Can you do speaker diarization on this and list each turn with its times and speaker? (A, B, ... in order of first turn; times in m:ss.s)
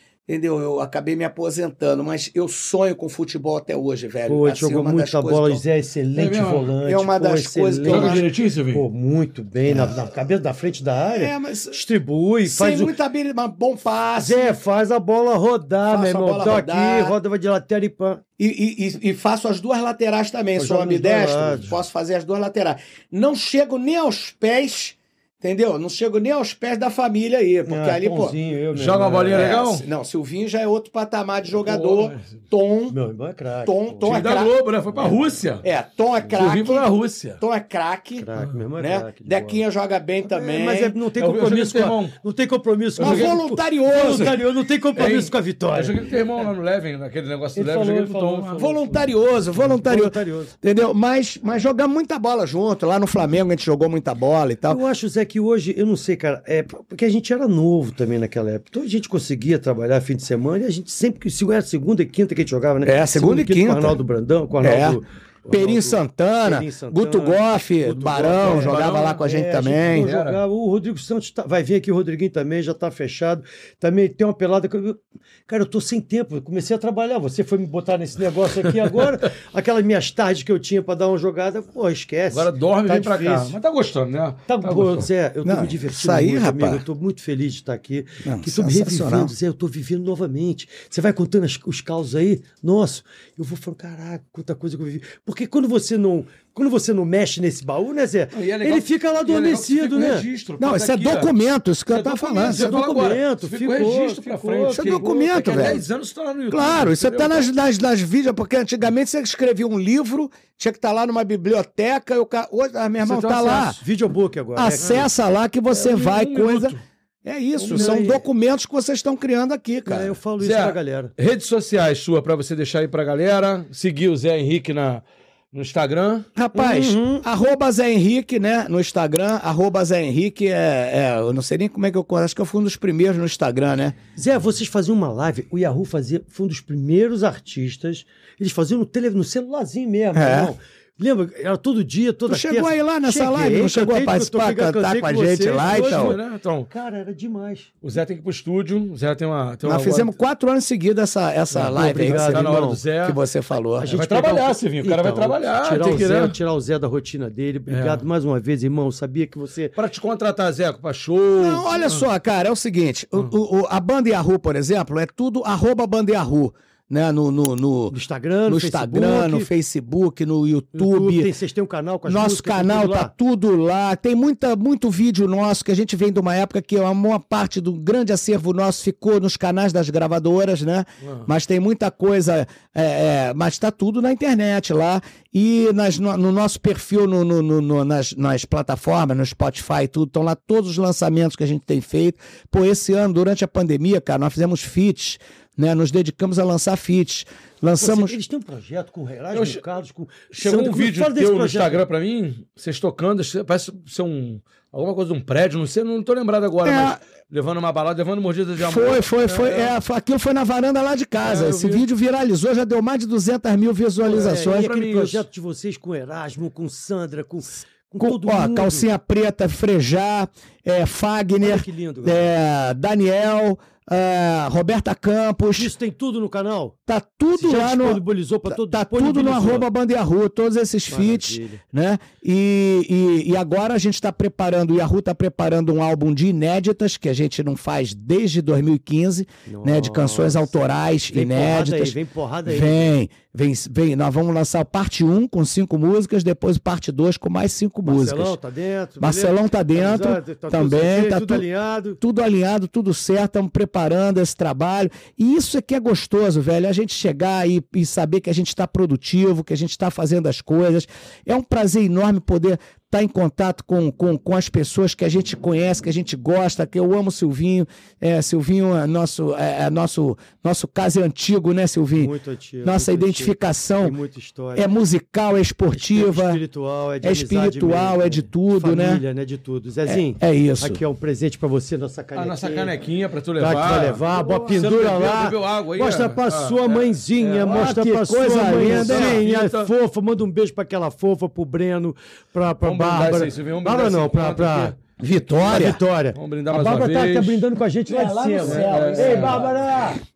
0:00.3-0:05.6 A
0:04.3-0:12.9 B
0:06.2-0:06.7 C
0:06.8-0:08.2 A
0:07.8-0:08.8 C
0:11.0-0:11.8 A
0:12.4-0:14.6 A
0:14.2-0:18.2 B
0:15.9-0:17.2 A
0:18.4-0:28.4 A
0:20.6-0:21.8 B
0:27.6-0:29.5 B
0:28.7-0:29.8 C
0:29.3-0:33.0 A
0:31.6-0:32.3 C
0:32.9-0:34.2 B
0:33.6-0:34.5 A
0:34.0-0:35.6 C
0:35.6-0:41.0 A
0:36.3-0:37.4 C
0:38.2-0:39.6 B
0:40.2-0:46.1 B
0:41.2-0:42.2 C
0:43.0-0:43.4 C
0:43.0-0:44.4 A
0:44.0-0:44.3 C
0:44.9-0:48.7 C
0:47.6-0:49.0 B
0:48.6-0:54.8 A
0:49.6-0:50.5 B
0:54.7-1:23.6 B
1:02.8-1:04.0 A
1:04.6-1:10.1 A
1:08.4-1:09.2 C
1:09.8-1:10.4 C
1:22.3-1:25.1 C
1:24.5-1:40.3 B
1:25.4-1:26.8 A
1:28.2-1:29.3 A
1:38.3-1:41.3 C
1:40.6-1:42.7 A
1:41.9-1:47.5 C
1:42.4-1:45.8 B
1:44.7-1:45.8 A
1:46.5-1:53.8 A
1:53.0-1:53.8 C
1:53.8-1:55.0 B
1:54.6-2:00.1 A
1:55.7-1:56.8 C
1:57.6-1:58.3 B
1:57.6-1:58.0 C
1:59.8-2:01.1 B
2:00.4-2:06.3 C
2:06.4-2:14.0 A
2:06.5-2:07.3 B
2:14.2-2:27.7 B
2:20.2-2:20.5 A
2:22.3-2:26.2 A
2:25.6-2:26.7 C
2:27.8-2:30.2 C
2:29.6-2:33.9 A
2:31.5-2:33.2 C
2:31.7-2:32.8 B
2:33.8-2:39.7 B
2:33.9-2:36.4 C
2:37.7-2:38.0 C
2:39.8-2:42.1 C
2:41.4-2:48.0 A
2:47.9-2:49.5 B
2:48.5-2:51.3 A
2:50.7-2:53.1 B
2:52.1-3:18.2 A
3:17.8-3:21.8 B
3:19.3-3:19.6 C
3:20.3-3:29.7 C
3:26.6-3:27.0 A
3:28.6-3:34.6 A
3:31.2-3:31.8 C
3:34.0-3:38.9 B
3:34.1-3:35.2 C
3:38.0-3:45.7 A
3:41.4-3:42.3 B
3:45.6-3:46.7 B
3:46.9-4:08.4 A
3:47.4-3:49.7 B
3:50.9-3:51.6 B
3:59.5-4:00.6 B
4:01.1-4:02.9 B
4:07.8-4:12.0 B
4:09.0-4:11.4 A
4:12.0-4:32.1 A
4:31.9-4:34.7 B
4:32.6-4:34.0 A
4:34.6-4:36.4 A
4:35.7-4:42.7 B
4:37.0-4:39.0 A
4:39.9-4:40.8 A
4:42.2-4:47.8 C
4:43.4-4:54.7 B
4:44.2-4:44.5 A
4:47.4-4:49.3 A
4:48.4-4:49.7 C
4:52.6-4:54.8 C
4:55.0-4:55.8 A
4:55.4-5:00.0 B
4:56.2-4:57.4 C
4:57.9-4:59.9 A
4:58.4-4:59.4 C